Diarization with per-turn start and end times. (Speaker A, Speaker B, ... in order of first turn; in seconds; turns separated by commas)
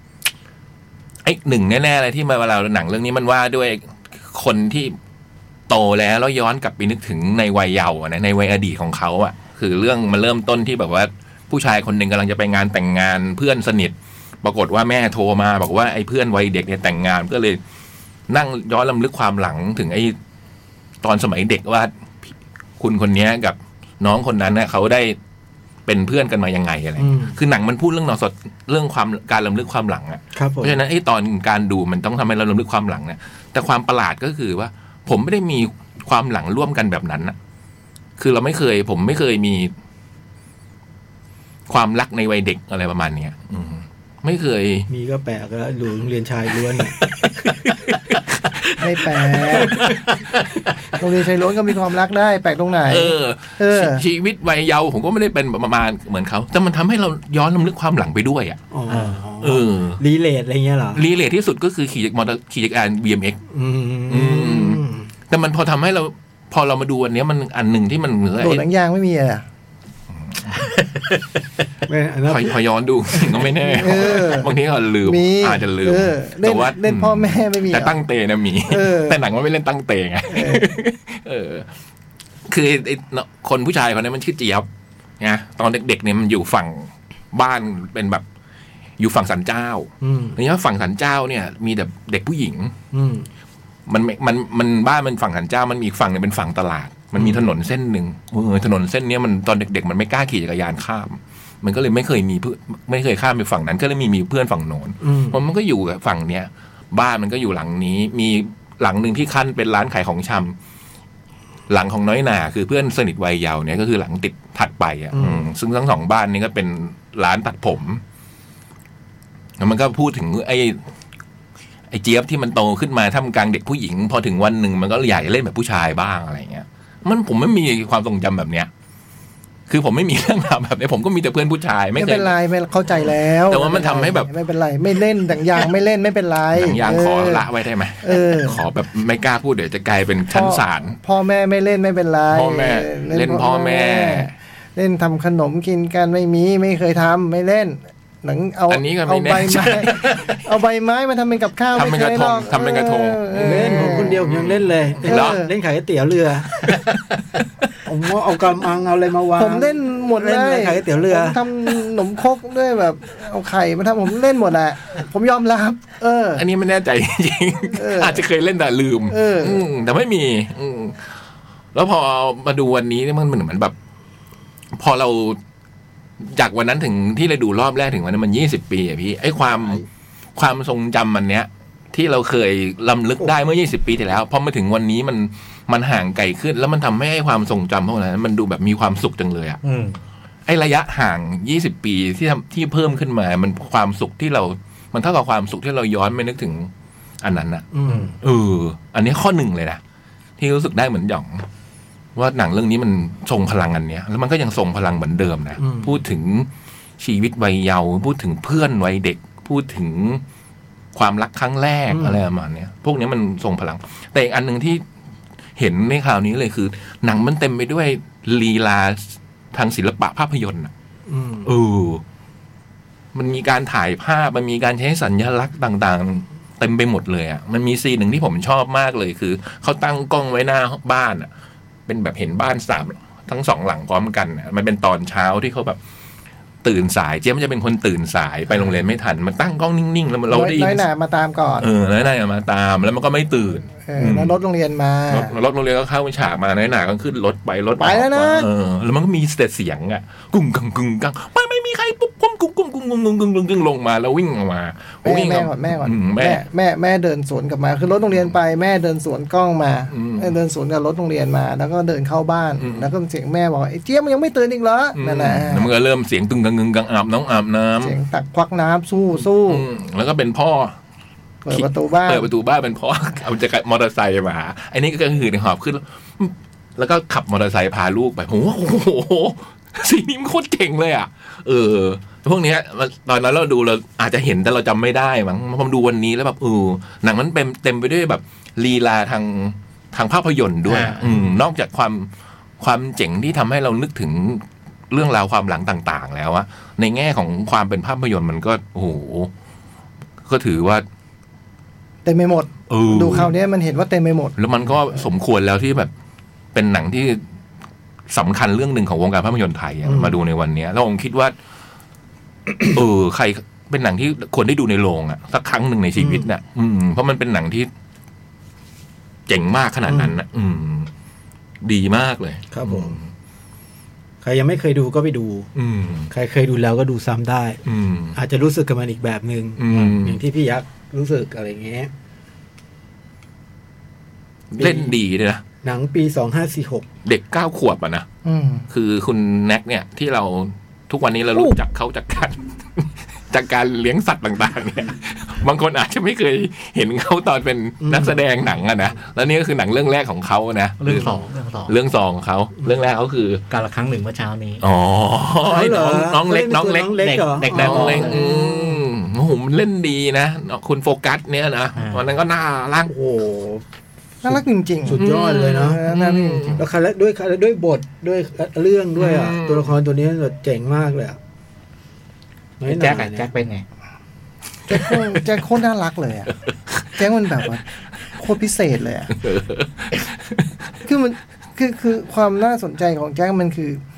Speaker A: 1.2-5.0, Speaker A: 5.7-17.6, Speaker A: 18.3-20.2, Speaker A: 21.0-21.9, Speaker A: 22.8-25.2, Speaker A: 25.9-37.3, Speaker B: 27.0-27.4, Speaker B: 30.3-30.8, Speaker A: 38.2-39.7, Speaker A: 41.7-44.9, Speaker B: 44.9-47.1, Speaker C: 47.2-47.7, Speaker D: 48.8-49.8, Speaker C: 49.5-50.2, Speaker D: 51.0-54.0, Speaker A: 52.9-58.6, Speaker B: 58.7-61.0, Speaker C: 58.9-59.2, Speaker A: 59.4-60.0, Speaker A: 60.9-63.4, Speaker B: 63.5-65.1, Speaker A: 64.1-68.6, Speaker D: 68.4-69.4, Speaker C: 70.5-71.0, Speaker B: 71.9-72.6, Speaker A: 72.3-81.7, Speaker B: 73.4-74.0, Speaker D: 73.7-74.5, Speaker D: 75.0-78.0, Speaker D: 78.7-79.2, Speaker D: 80.3-80.7, Speaker A: 82.5-84.7, Speaker A: 85.2-88.2, Speaker A: 89.0-92.7, Speaker B: 90.0-90.4, Speaker B: 92.9-93.3, Speaker A: 93.9-110.5, Speaker B: 97.2-97.5, Speaker B: 105.0-105.4, Speaker A: 111.7-118.0, Speaker B: 115.1-115.5, Speaker A: 119.6-120.8, Speaker A: 121.9-128.7, Speaker A: 129.7-132.3, Speaker D: 131.9-137.5, Speaker A: 132.9-134.3, Speaker A: 136.5-141.0, Speaker D: 138.0-138.6, Speaker D: 140.3-154.2, Speaker A: 142.3-144.3, Speaker A: 148.7-150.4, Speaker A: 151.7-155.4, Speaker B: 153.3-156.8, Speaker D: 155.0-155.5, Speaker B: 157.8-161.4, Speaker D: 159.4-166.4, Speaker A: 166.4-171.1, Speaker D: 167.7-168.2, Speaker D: 169.1-169.6, Speaker A: 171.7-173.7, Speaker A: 174.8-175.4, Speaker A: 176.2-179.8, Speaker A: 180.3-189.6, Speaker C: 189.6-190.0, Speaker A: 190.4-196.7, Speaker A: 197.2-199.8, Speaker B: 197.7-198.1, Speaker C: 197.9-198.2, Speaker A: 200.4-201.4, Speaker A: 202.2-206.5, Speaker B: 205.6-206.0, Speaker A: 207.0-210.2, Speaker A: 210.9-214.8, Speaker B: 211.9-212.2, Speaker A: 215.6-220.7, Speaker B: 221.1-221.5, Speaker A: 221.4-222.0, Speaker A: 223.1-231.3, Speaker A: 231.9-235.8, Speaker A: 236.6-240.8, Speaker D: 240.3-241.7, Speaker A: 241.6-244.4, Speaker D: 243.8-245.3, Speaker A: 245.1-256.4, Speaker D: 247.8-248.5, Speaker D: 255.0-265.7, Speaker A: 259.9-260.3, Speaker A: 262.6-262.9, Speaker A: 264.9-267.9, Speaker D: 267.8-269.6, Speaker A: 269.2-270.8, Speaker D: 271.4-272.3, Speaker A: 271.5-299.3, Speaker C: 290.7-291.3, Speaker A: 300.2-300.8, Speaker D: 302.0-304.4, Speaker A: 302.7-303.3, Speaker A: 304.4-305.9, Speaker A: 306.5-307.2, Speaker A: 308.1-311.3, Speaker B: 309.8-310.2, Speaker A: 312.6-317.7, Speaker B: 316.0-316.2, Speaker A: 319.3-320.9, Speaker B: 319.9-320.1, Speaker A: 321.6-323.1, Speaker B: 322.5-323.0, Speaker B: 324.2-325.5, Speaker A: 325.5-326.1, Speaker B: 326.1-327.6, Speaker A: 327.6-328.2, Speaker B: 328.1-331.9, Speaker A: 329.6-330.2, Speaker A: 334.5-335.4, Speaker B: 334.6-334.9, Speaker B: 335.6-336.9, Speaker A: 337.0-338.1, Speaker D: 338.2-338.7, Speaker A: 338.7-353.4, Speaker B: 347.8-348.2, Speaker C: 350.8-351.7, Speaker C: 353.5-354.6, Speaker A: 354.6-362.9, Speaker B: 355.4-358.8, Speaker C: 356.9-358.2, Speaker C: 361.8-362.0, Speaker B: 362.9-363.6, Speaker D: 364.2-365.1, Speaker B: 364.2-365.8, Speaker A: 364.9-366.6, Speaker D: 365.6-366.6, Speaker B: 366.5-371.2, Speaker A: 368.9-369.7, Speaker B: 372.6-373.3, Speaker C: 372.6-373.6, Speaker D: 374.7-376.3, Speaker D: 376.9-379.2, Speaker A: 379.2-380.0, Speaker D: 380.8-383.8